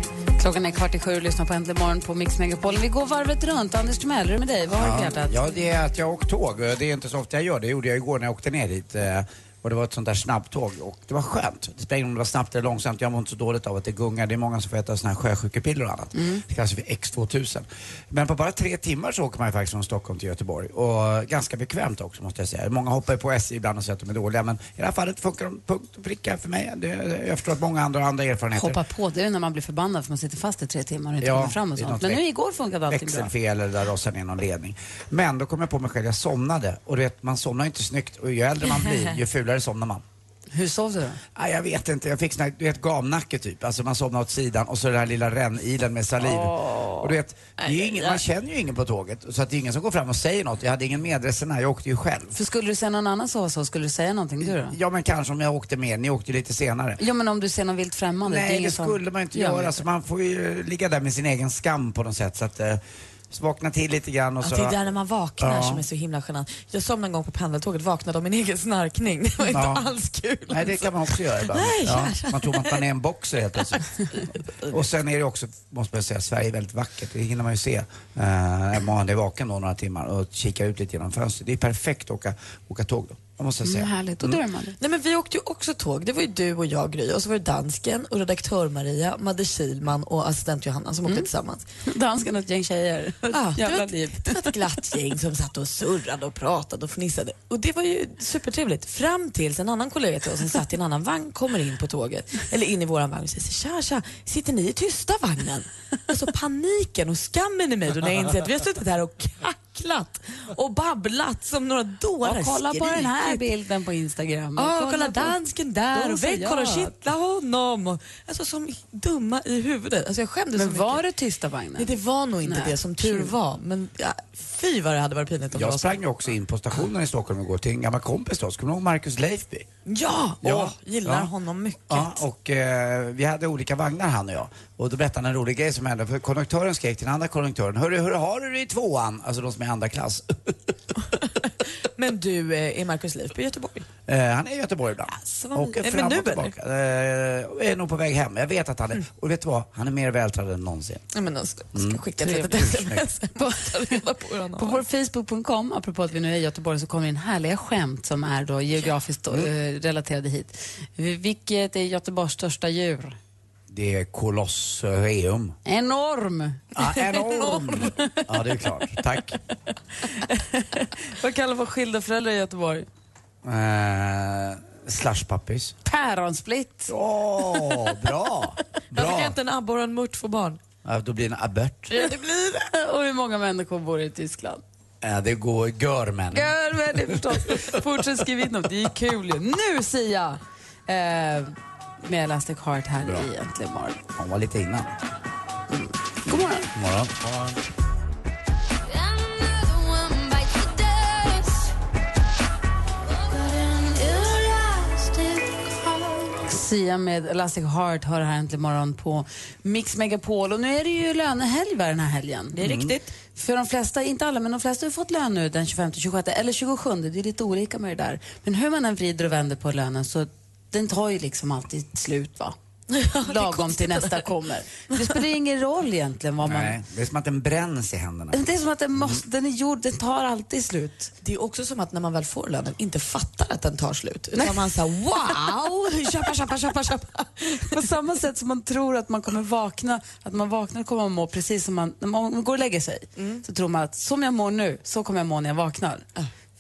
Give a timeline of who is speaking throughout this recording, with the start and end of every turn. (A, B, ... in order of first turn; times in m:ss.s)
0:00.4-0:05.6 A
0:04.7-0:28.8 B
0:28.5-0:33.3 A
0:31.2-0:32.2 B
0:32.9-0:40.0 B
0:40.5-0:41.2 A
0:41.4-0:52.4 B
0:46.2-0:47.1 A
0:47.6-0:48.2 C
0:52.3-0:54.8 A
0:54.4-0:57.0 B
0:57.0-0:59.8 A
0:58.2-1:04.7 B
1:04.4-1:12.8 C
1:05.4-1:05.8 B
1:09.5-1:09.9 B
1:10.5-1:13.8 B
1:13.7-1:14.2 C
1:14.7-1:24.4 B
1:23.6-1:24.8 A
1:24.8-1:31.6 C
1:31.9-1:34.5 A
1:33.2-1:53.5 C
1:52.2-1:55.4 A
1:54.6-2:01.0 C
1:55.9-1:56.9 A
2:00.5-2:03.3 A
2:01.8-2:06.0 C
2:05.5-2:09.6 B
2:09.8-2:12.2 C
2:10.4-2:11.3 B
2:11.9-2:20.5 B
2:21.9-2:23.8 C
2:24.1-2:31.0 B
2:25.1-2:26.5 C
2:31.1-2:34.8 C
2:31.7-2:32.0 B
2:32.2-2:32.8 A
2:32.6-2:33.0 B
2:34.6-2:43.2 A
2:43.7-2:45.5 B
2:45.6-2:46.7 A
2:46.8-2:49.4 B
2:46.9-2:47.9 C
2:47.2-2:48.5 A
2:50.0-2:52.9 A
2:53.4-2:55.7 B
2:55.8-2:56.9 A
2:56.9-2:59.4 B
2:58.9-3:00.6 C
3:00.8-3:01.9 B
3:01.9-3:02.7 C
3:01.9-3:04.6 A
3:05.0-3:06.6 B
3:06.3-3:14.0 A
3:07.1-3:07.4 B
3:13.0-3:13.3 B
3:14.2-3:14.9 B
3:15.7-3:16.7 A
3:16.7-3:17.1 B
3:20.7-3:21.4 A
3:23.2-3:32.6 A
3:32.5-3:33.1 C
3:32.6-3:32.9 B
3:33.3-3:42.5 A
3:42.9-3:44.3 C
3:43.2-3:46.8 A
3:44.9-3:45.2 C
3:46.4-3:48.4 B
3:48.3-3:51.1 A
3:51.2-3:57.9 C
3:54.3-3:56.5 A
3:57.4-4:06.0 A
4:03.2-4:03.4 C